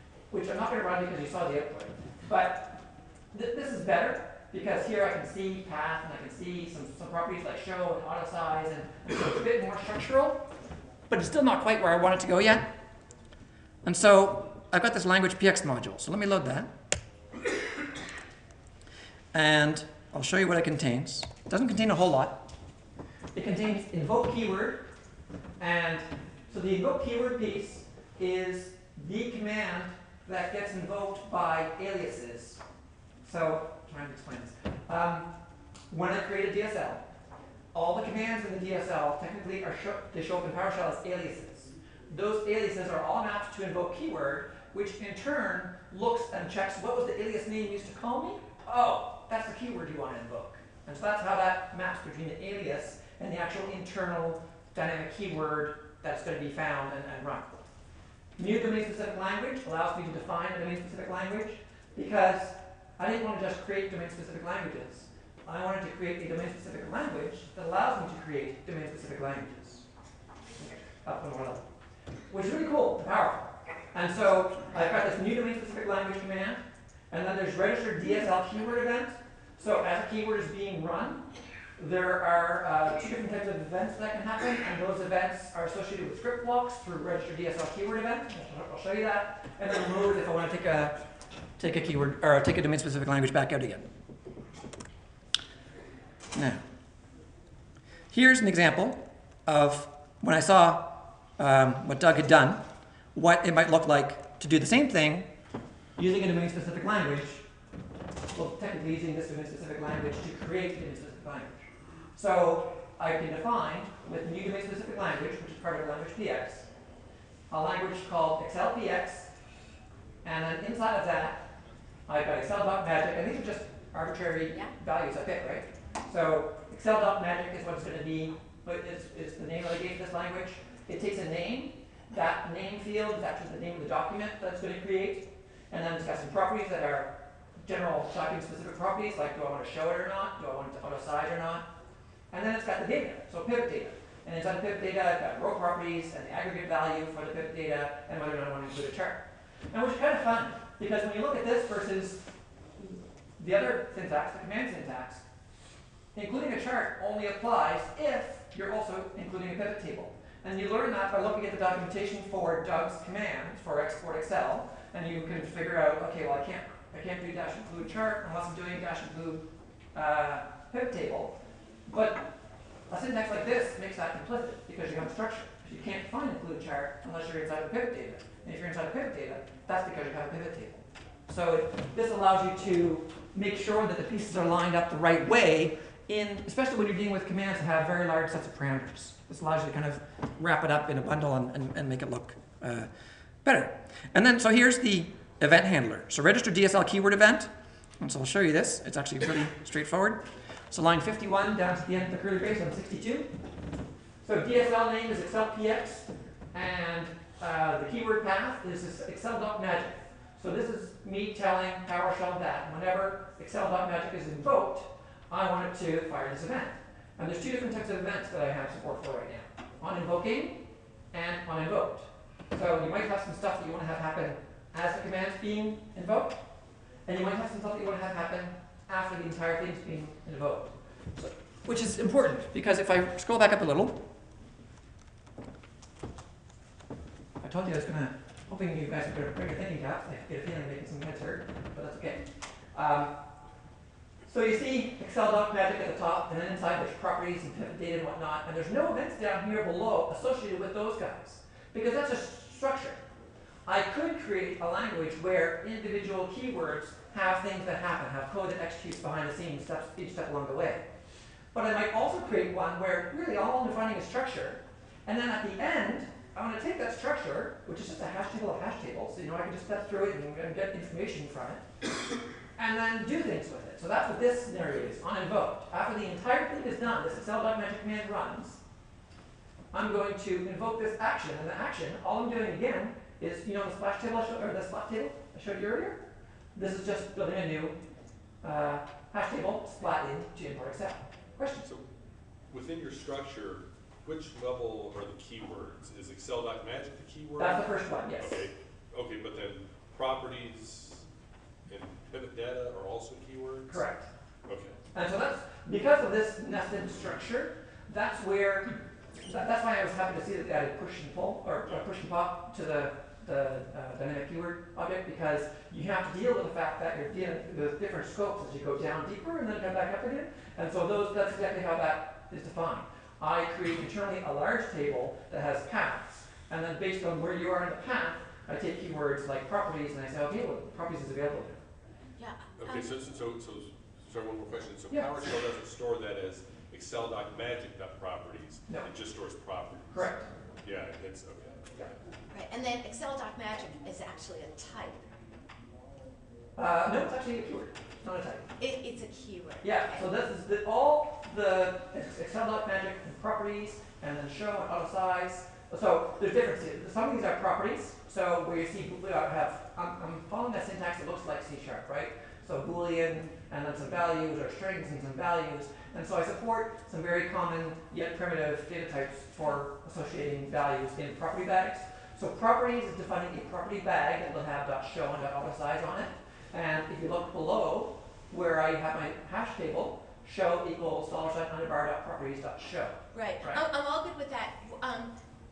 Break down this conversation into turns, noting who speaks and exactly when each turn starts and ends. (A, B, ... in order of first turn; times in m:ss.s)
0:00.3-0:10.5 A
0:11.1-0:12.7 A
0:13.8-0:16.7 A
0:19.3-0:22.5 A
0:23.3-0:24.8 A
0:25.6-0:32.6 A
0:33.2-0:35.3 A
0:35.9-0:37.0 A
0:37.7-0:57.5 A
0:58.4-1:09.8 A
1:10.6-1:11.6 A
1:12.3-1:21.2 A
1:21.8-1:31.0 A
1:31.6-1:33.9 A
1:36.3-1:36.6 A
1:38.1-1:45.3 A
1:46.0-1:47.4 A
1:48.3-1:51.6 A
1:52.1-1:56.7 A
1:57.5-1:59.3 A
2:00.2-2:01.5 A
2:02.1-2:21.7 A
2:22.3-2:32.2 A
2:33.4-2:35.2 A
2:36.1-2:52.3 A
2:52.9-3:12.9 A
3:13.4-3:23.3 A
3:24.2-3:46.4 A
3:47.0-3:54.0 A
3:57.4-4:03.2 A
4:04.2-4:13.0 A
4:13.6-4:20.8 A
4:21.5-4:31.6 A
4:32.6-4:38.6 A
4:39.7-4:46.0 A
4:46.5-4:47.8 A
4:48.4-4:51.7 A
4:52.5-5:01.0 B
4:57.4-4:58.5 A
5:01.7-5:03.8 B
5:03.7-5:04.1 A
5:04.4-5:04.8 B
5:04.9-5:31.6 A
5:32.2-5:32.9 C
5:32.6-5:40.1 B
5:39.9-5:40.3 A
5:40.6-5:42.0 B
5:42.3-5:45.0 C
5:46.6-5:48.4 A
5:48.6-5:50.0 C
5:49.6-6:23.6 A
6:23.1-6:25.1 C